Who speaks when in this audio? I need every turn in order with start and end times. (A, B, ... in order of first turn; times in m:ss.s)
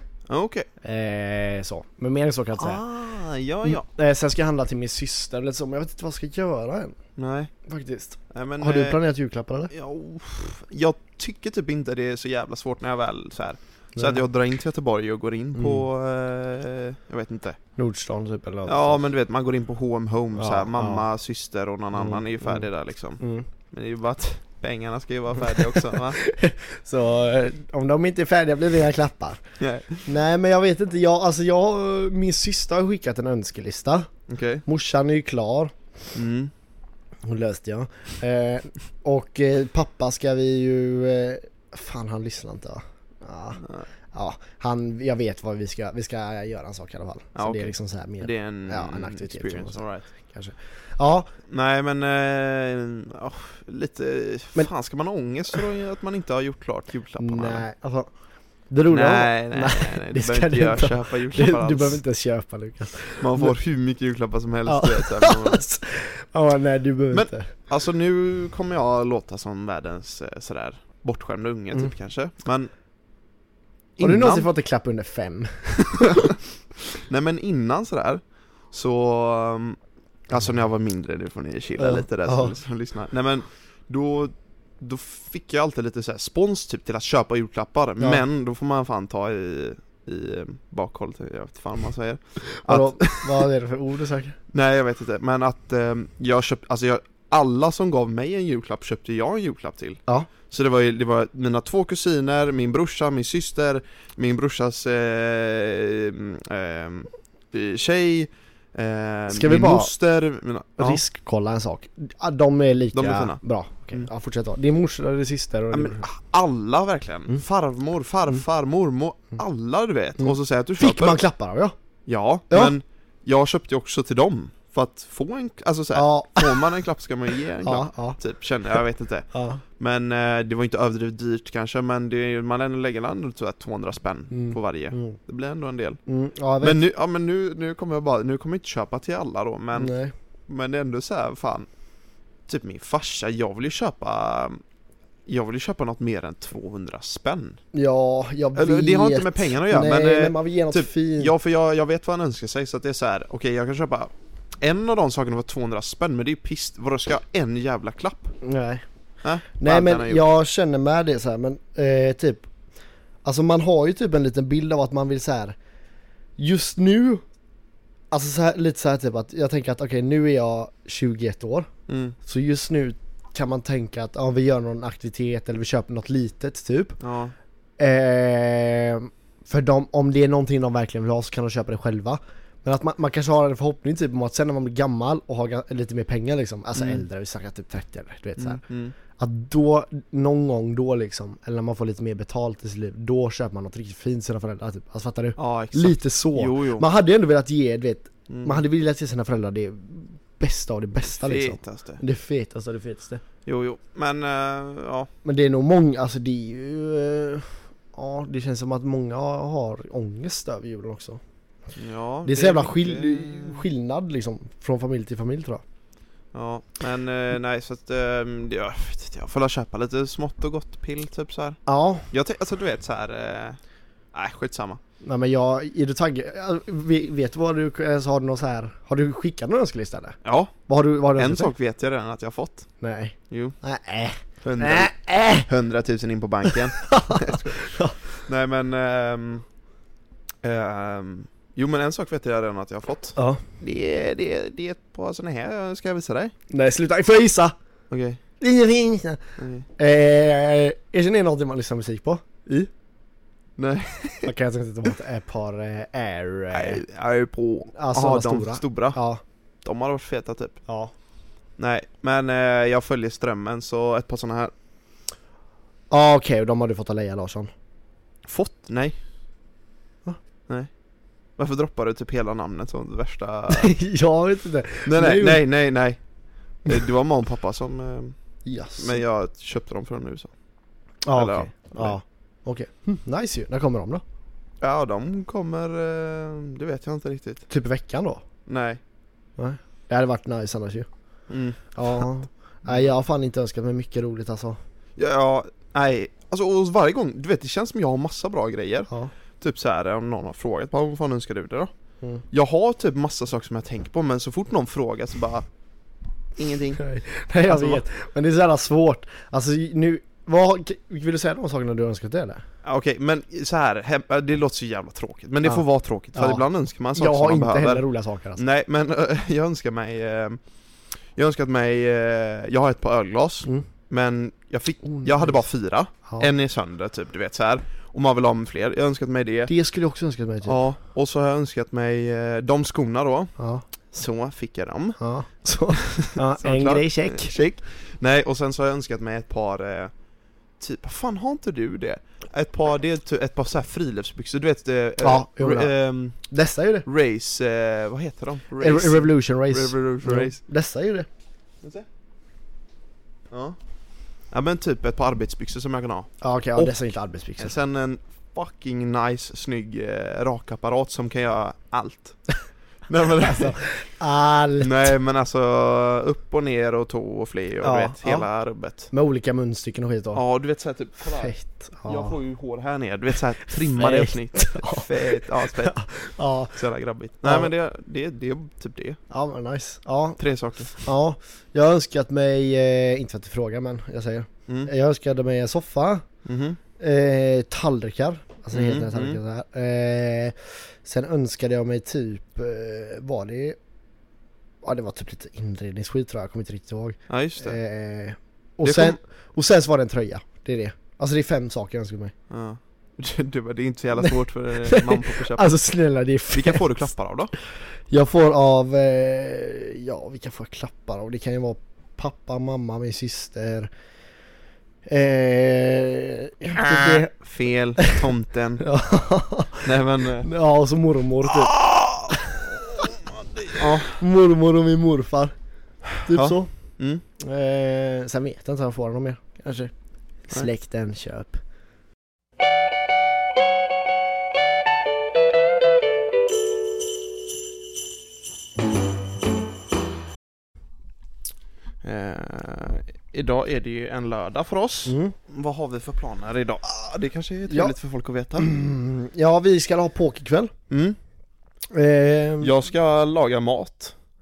0:00.3-0:00.7 A
0:00.8-0:02.8 B
0:02.5-0:03.8 A
0:03.6-0:07.0 B
0:07.2-0:07.5 A
0:07.6-0:09.7 B
0:08.3-0:09.0 A
0:09.7-0:17.6 A
0:14.0-0:14.3 B
0:15.5-0:15.9 B
0:17.8-0:19.0 B
0:18.6-0:26.2 A
0:20.4-0:21.0 B
0:21.9-0:22.6 B
0:23.2-0:23.5 B
0:25.4-0:29.4 B
0:29.6-0:30.1 A
0:30.0-0:34.1 B
0:34.3-0:34.6 A
0:34.6-0:35.7 B
0:36.1-0:36.5 A
0:37.2-0:43.6 B
0:43.6-0:43.9 A
0:44.1-0:51.3 B
0:47.3-0:50.1 A
0:51.5-0:57.6 A
0:57.2-0:58.1 B
0:58.7-1:03.6 B
0:58.9-1:02.0 A
1:03.2-1:05.6 A
1:04.6-1:07.5 B
1:07.1-1:12.7 A
1:14.0-1:14.5 A
1:14.0-1:16.3 B
1:15.8-1:16.4 A
1:16.9-1:19.8 A
1:20.3-1:33.4 A
1:21.8-1:22.5 B
1:32.6-1:34.4 B
1:34.5-1:51.0 A
1:49.3-1:49.9 B
1:50.8-1:56.0 B
1:52.9-1:53.4 A
1:55.7-2:01.2 A
2:00.2-2:01.8 B
2:02.1-2:16.0 A
2:02.5-2:02.8 B
2:05.9-2:06.8 B
2:07.6-2:08.2 B
2:09.3-2:09.6 B
2:14.3-2:15.2 B
2:16.1-2:16.8 B
2:16.6-2:19.9 A
2:19.7-2:20.1 B
2:20.5-2:21.7 A
2:22.5-2:24.6 A
2:25.2-2:27.6 A
2:27.7-2:31.3 B
2:28.5-2:38.4 A
2:38.4-2:38.8 B
2:39.2-2:40.2 A
2:39.6-2:42.5 B
2:43.2-2:45.6 B
2:46.4-2:47.2 B
2:48.1-2:51.7 B
2:51.9-2:52.2 A
2:52.2-2:57.0 B
2:57.0-2:57.3 A
2:57.8-3:08.6 B
3:06.8-3:07.0 A
3:08.4-3:08.9 A
3:09.2-3:23.2 B
3:15.4-3:16.9 A
3:18.3-3:18.6 A
3:21.1-3:22.0 A
3:23.4-3:25.1 A
3:25.2-3:31.2 B
3:31.8-3:33.6 A
3:32.2-3:35.6 B
3:36.3-3:43.6 A
3:41.6-3:42.1 B
3:44.1-3:44.8 A
3:45.0-3:51.5 B
3:50.2-3:50.5 A
3:51.2-3:52.7 A
3:52.8-3:55.5 B
3:53.3-3:53.5 A
3:54.4-3:54.9 A
3:55.4-3:57.7 A
3:56.4-3:58.0 B
3:58.2-3:59.4 A
4:00.4-4:06.3 A
4:03.2-4:03.4 B
4:06.5-4:07.6 B
4:07.9-4:08.2 A
4:08.4-4:09.2 B
4:09.4-4:09.7 A
4:09.8-4:12.7 B
4:13.6-4:14.3 A
4:14.2-4:16.8 B
4:16.5-4:19.0 A
4:17.7-4:19.2 B
4:19.6-4:20.6 A
4:20.7-4:20.9 B
4:21.6-4:24.5 A
4:25.9-4:27.5 B
4:28.3-4:29.0 A
4:31.4-4:33.7 A
4:33.5-4:35.4 B
4:34.8-4:36.0 A
4:36.6-4:38.2 A
4:38.4-4:39.0 B
4:38.8-4:40.3 A
4:41.0-4:44.0 B
4:41.1-4:42.0 A
4:44.6-4:47.4 A
4:47.5-4:48.2 B
4:48.5-4:48.8 A
4:49.4-4:50.9 B
4:51.3-4:51.8 A
4:51.7-4:54.6 B
4:55.0-5:01.7 A
5:02.3-5:05.4 A
5:06.4-5:06.8 A
5:06.8-5:12.4 B
5:07.4-5:07.8 A
5:12.6-5:17.8 A
5:15.4-5:18.4 B
5:18.4-5:20.4 A
5:21.1-5:29.5 A
5:24.9-5:25.4 B
5:29.5-5:30.6 B
5:30.4-5:33.3 A
5:33.4-5:33.6 B
5:33.9-5:35.0 A
5:35.0-5:37.4 B
5:35.7-5:39.9 A
5:40.6-5:46.2 A
5:45.0-5:46.8 B
5:46.8-5:50.4 A
5:48.6-5:51.1 B
5:53.3-5:53.6 A
5:54.3-5:56.8 A
5:56.2-5:57.5 B
5:57.4-6:02.3 A
6:02.9-6:03.7 A
6:03.2-6:04.9 B
6:04.6-6:08.9 A
6:07.6-6:08.3 B
6:08.9-6:10.2 B
6:10.1-6:15.8 A
6:11.1-6:12.2 B
6:13.7-6:16.6 B
6:16.5-6:19.0 A
6:17.2-6:17.5 B
6:19.1-6:20.2 B
6:20.2-6:20.9 A
6:20.7-6:26.0 B
6:26.2-6:26.6 A
6:26.8-6:33.6 B
6:28.5-6:29.2 A
6:34.6-6:42.1 B
6:37.1-6:37.6 A
6:38.6-6:39.0 A
6:42.3-6:45.5 A
6:44.6-6:46.9 B
6:46.3-6:47.3 A
6:47.9-6:53.7 B
6:54.8-6:57.1 B
6:56.5-6:58.6 A
6:58.6-7:01.5 B
6:59.6-7:00.3 A
7:01.2-7:04.0 A
7:02.1-7:02.8 B
7:03.5-7:05.3 B
7:05.9-7:07.0 A
7:06.0-7:06.5 B
7:07.2-7:09.7 B
7:10.3-7:11.4 B
7:21.8-7:28.5 A
7:24.8-7:25.1 B
7:27.5-7:27.7 B
7:28.4-7:30.5 B
7:30.7-7:31.0 A
7:31.7-7:32.5 B
7:32.4-7:33.9 A